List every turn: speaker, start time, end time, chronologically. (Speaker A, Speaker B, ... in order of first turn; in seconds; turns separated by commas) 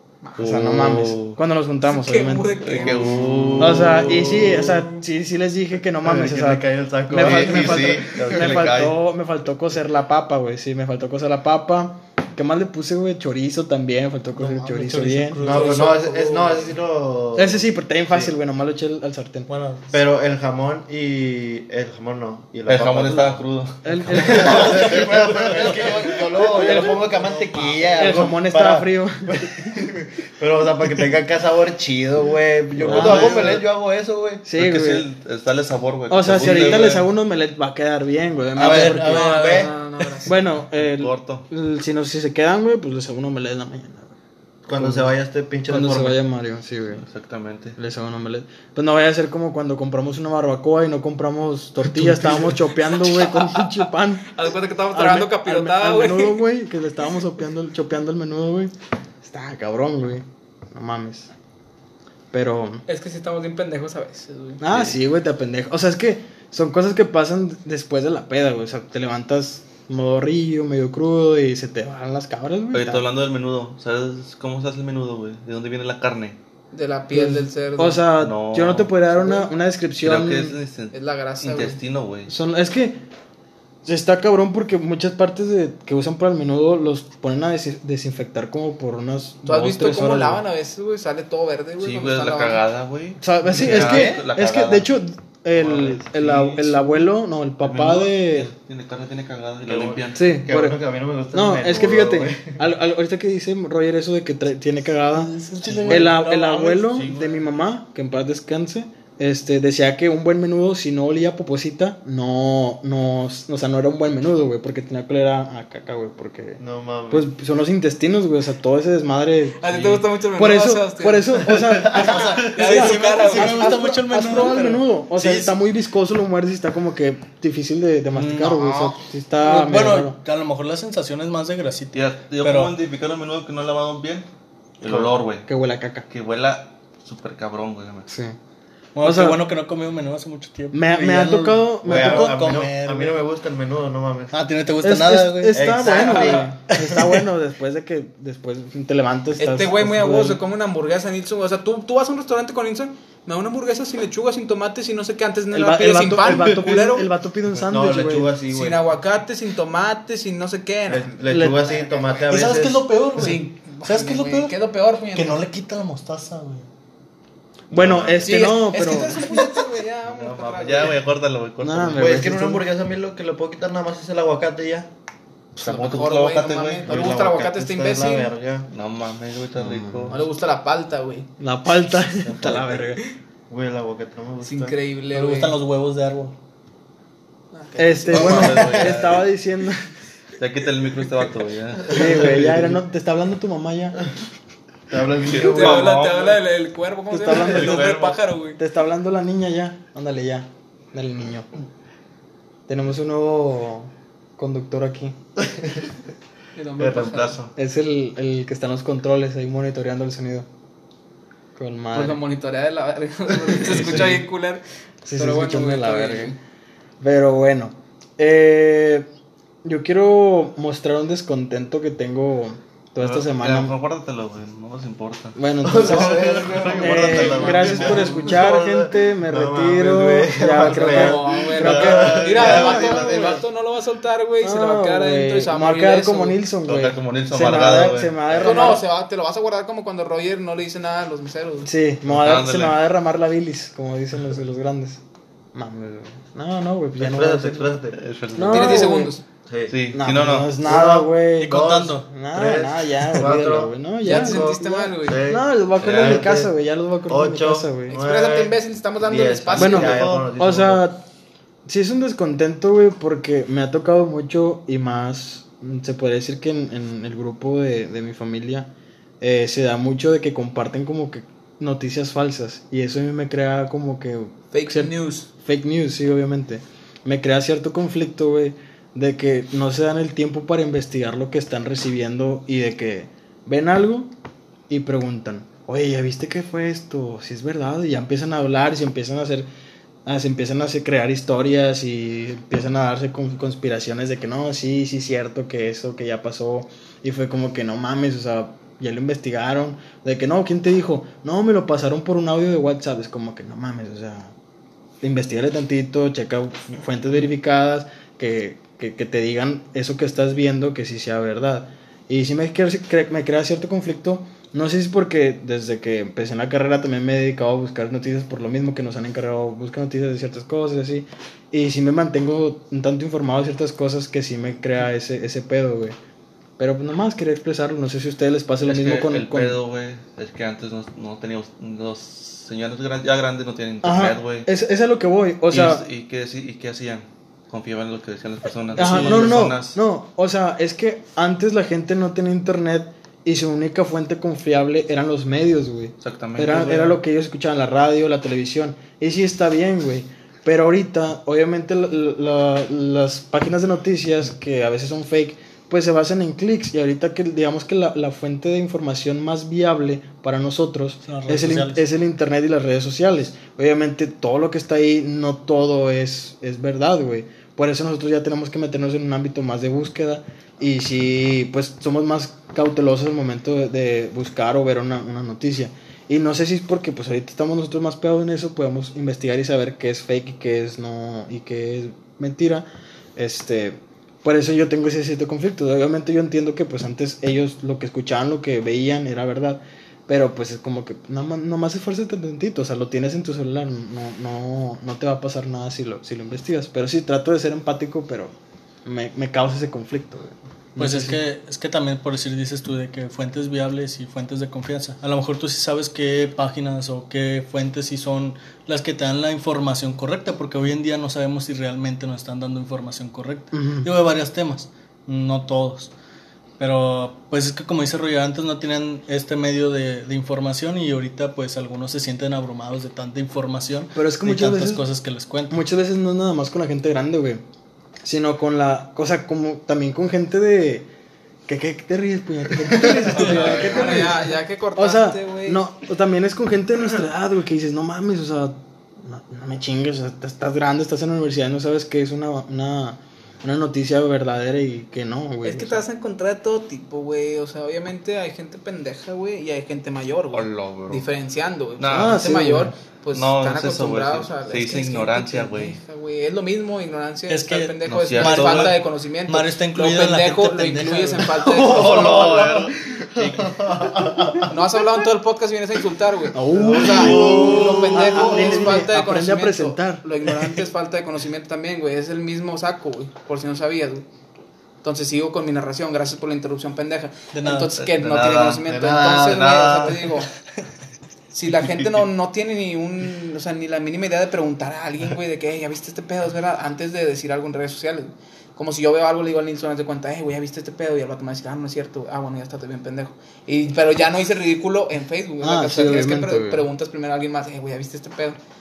Speaker A: 0.2-0.5, Speaker B: 0.4-1.4, Speaker C: 0.4-2.7, Speaker A: 1.9-3.2, Speaker B: 2.6-4.7, Speaker D: 2.8-4.8, Speaker C: 3.6-15.7, Speaker D: 6.0-8.8, Speaker B: 7.1-9.0, Speaker E: 14.3-16.5, Speaker D: 15.4-18.3, Speaker A: 15.5-16.5, Speaker C: 17.4-19.5, Speaker E: 19.5-19.9, Speaker D: 19.9-23.4, Speaker B: 22.7-24.9, Speaker C: 23.8-25.8, Speaker D: 24.1-34.4, Speaker E: 24.4-28.2, Speaker C: 26.4-27.0, Speaker C: 28.0-29.7, Speaker B: 32.8-33.5, Speaker C: 32.8-33.6, Speaker C: 34.4-35.1, Speaker B: 34.6-37.1, Speaker C: 36.1-39.5, Speaker D: 36.4-36.9, Speaker E: 38.6-39.7, Speaker D: 38.6-39.8, Speaker A: 39.0-40.4, Speaker C: 40.2-44.1, Speaker B: 40.7-41.5, Speaker D: 44.7-46.2, Speaker C: 44.8-45.1, Speaker C: 45.7-47.0, Speaker B: 47.0-47.8, Speaker C: 47.8-54.3, Speaker A: 53.1-53.8, Speaker A: 54.3-56.4, Speaker C: 54.9-61.3, Speaker C: 62.3-62.8, Speaker A: 62.9-64.6, Speaker C: 64.6-73.0, Speaker B: 72.7-76.4, Speaker A: 76.7-78.1, Speaker C: 77.1-80.6, Speaker B: 78.2-79.4, Speaker B: 80.0-82.3, Speaker A: 80.9-81.8, Speaker C: 82.3-83.0, Speaker C: 83.8-90.4, Speaker A: 89.5-92.6, Speaker B: 91.8-94.9, Speaker C: 93.2-98.5, Speaker D: 93.5-94.2, Speaker B: 95.5-97.0, Speaker B: 97.6-100.3, Speaker D: 99.7-102.6, Speaker C: 100.2-100.8, Speaker C: 101.3-105.3, Speaker E: 105.1-107.1, Speaker B: 105.7-106.2, Speaker C: 105.9-119.7, Speaker B: 106.9-107.5, Speaker D: 116.6-117.3, Speaker A: 119.6-124.5, Speaker B: 119.7-120.0, Speaker C: 120.3-130.2, Speaker E: 121.9-125.6, Speaker E: 128.1-128.7, Speaker A: 128.5-129.0, Speaker E: 129.4-132.8, Speaker B: 131.9-134.3, Speaker B: 134.8-135.5, Speaker D: 134.8-135.2, Speaker C: 135.5-136.1, Speaker B: 136.1-138.1, Speaker C: 138.1-138.4, Speaker E: 138.9-143.2, Speaker C: 139.0-139.4, Speaker C: 140.7-142.5, Speaker D: 141.8-144.3, Speaker E: 144.3-145.8, Speaker C: 144.8-150.4, Speaker D: 145.5-146.5, Speaker A: 145.9-146.4, Speaker E: 146.7-147.2, Speaker A: 149.4-157.1, Speaker C: 155.5-158.3, Speaker D: 157.6-158.9, Speaker A: 158.5-162.5, Speaker D: 160.9-162.9, Speaker C: 161.3-161.7, Speaker E: 162.3-164.6, Speaker A: 163.2-165.4, Speaker E: 165.1-166.7, Speaker C: 167.7-169.4, Speaker D: 167.7-168.3, Speaker A: 168.2-171.0, Speaker B: 170.1-172.2, Speaker C: 171.6-172.7, Speaker D: 172.0-174.9, Speaker A: 175.6-178.3, Speaker B: 175.6-177.1, Speaker D: 176.8-178.7, Speaker B: 178.7-180.2, Speaker C: 179.6-180.2, Speaker A: 180.1-181.3, Speaker C: 181.4-183.0, Speaker B: 182.2-182.8, Speaker D: 183.5-184.8, Speaker A: 184.4-185.6, Speaker E: 185.1-186.3, Speaker A: 187.5-188.7, Speaker C: 187.8-189.9, Speaker B: 188.1-189.3, Speaker B: 190.4-192.6, Speaker C: 191.9-194.0, Speaker D: 191.9-192.5, Speaker D: 194.9-196.0, Speaker B: 195.2-196.4, Speaker A: 195.4-198.6, Speaker C: 197.1-197.9, Speaker B: 197.3-198.2, Speaker C: 198.6-201.5, Speaker C: 202.7-205.2, Speaker D: 205.4-205.9, Speaker A: 206.6-207.4, Speaker D: 206.8-207.4, Speaker B: 206.9-207.5, Speaker C: 207.6-210.5, Speaker C: 211.6-212.2, Speaker A: 211.9-216.4, Speaker B: 213.6-214.2, Speaker C: 215.1-216.4, Speaker C: 217.0-219.1, Speaker C: 219.6-223.8, Speaker B: 223.0-228.4, Speaker C: 225.4-226.2, Speaker D: 225.6-232.9, Speaker C: 226.7-233.4, Speaker A: 230.5-236.4, Speaker B: 231.6-233.4, Speaker C: 234.4-238.8, Speaker B: 236.6-238.3, Speaker D: 238.3-238.8, Speaker A: 238.4-241.7, Speaker C: 241.6-245.0, Speaker B: 242.1-242.8, Speaker C: 245.5-247.7, Speaker D: 247.0-248.0, Speaker B: 248.0-248.9, Speaker C: 248.3-249.1, Speaker A: 248.5-249.2, Speaker D: 249.5-249.8, Speaker B: 249.7-250.5, Speaker C: 249.9-258.0, Speaker D: 250.6-256.5, Speaker E: 251.4-252.1, Speaker A: 254.0-255.3, Speaker B: 255.8-256.3, Speaker D: 257.1-260.8, Speaker A: 257.9-260.1, Speaker C: 259.6-261.0, Speaker B: 259.9-260.3, Speaker C: 261.7-284.1, Speaker A: 274.5-275.3, Speaker C: 284.7-289.5, Speaker C: 290.1-304.3, Speaker C: 305.0-326.0, Speaker C: 326.6-329.6, Speaker B: 328.6-334.5, Speaker C: 333.8-335.8, Speaker B: 335.5-339.8, Speaker C: 338.7-398.3, Speaker E: 338.9-339.3, Speaker B: 346.0-347.0, Speaker E: 361.1-361.9, Speaker C: 398.9-401.2, Speaker E: 400.8-415.9, Speaker C: 413.5-413.9, Speaker E: 416.6-425.6, Speaker C: 423.9-424.8, Speaker C: 425.5-427.4, Speaker C: 428.0-430.9, Speaker C: 431.5-445.9, Speaker B: 433.1-434.1, Speaker A: 433.1-435.6, Speaker A: 445.4-462.3, Speaker B: 450.3-451.1, Speaker B: 451.8-452.3, Speaker C: 451.9-452.8, Speaker B: 453.1-455.8, Speaker E: 457.3-461.3, Speaker B: 457.8-458.8, Speaker D: 461.4-464.6, Speaker B: 461.4-464.4, Speaker A: 464.5-474.1, Speaker C: 466.3-467.4, Speaker D: 466.5-468.8, Speaker B: 466.6-468.0, Speaker C: 467.9-470.1, Speaker A: 474.8-480.3, Speaker E: 477.3-477.9, Speaker B: 477.8-478.7, Speaker D: 478.6-480.0, Speaker B: 479.2-479.9, Speaker A: 481.3-498.4, Speaker B: 481.6-482.0, Speaker C: 495.4-496.7